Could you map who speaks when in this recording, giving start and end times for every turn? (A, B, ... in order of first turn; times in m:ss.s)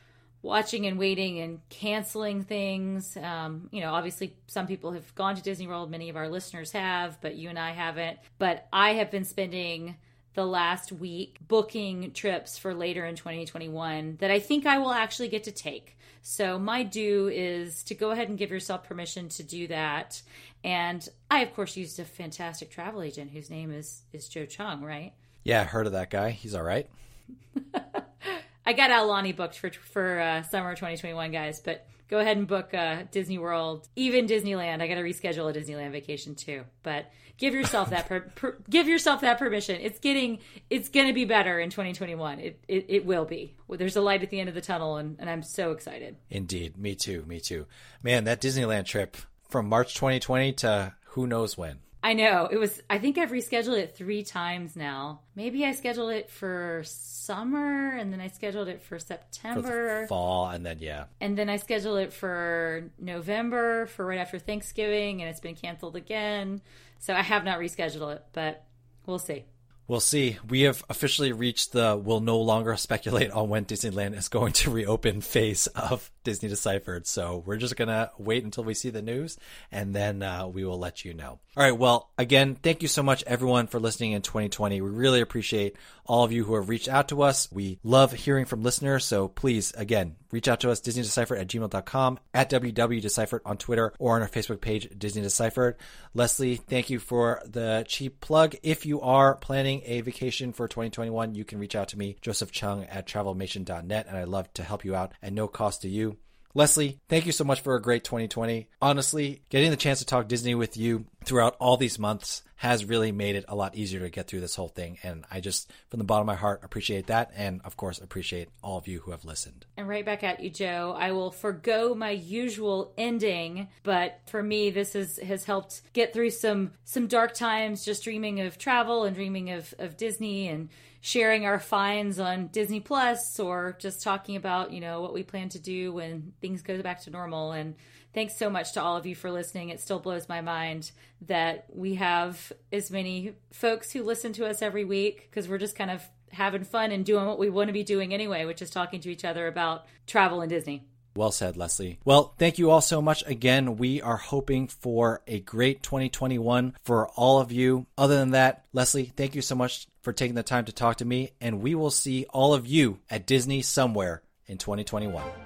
0:00.4-0:25.1 A
0:25.4-0:26.9 B
0:27.7-0:46.2 A
0:46.3-0:51.8 B
0:52.0-1:00.1 A
0:59.5-1:01.1 B
1:01.2-1:09.5 A
1:09.9-1:59.6 B
1:59.8-2:30.8 A
2:31.2-2:45.3 B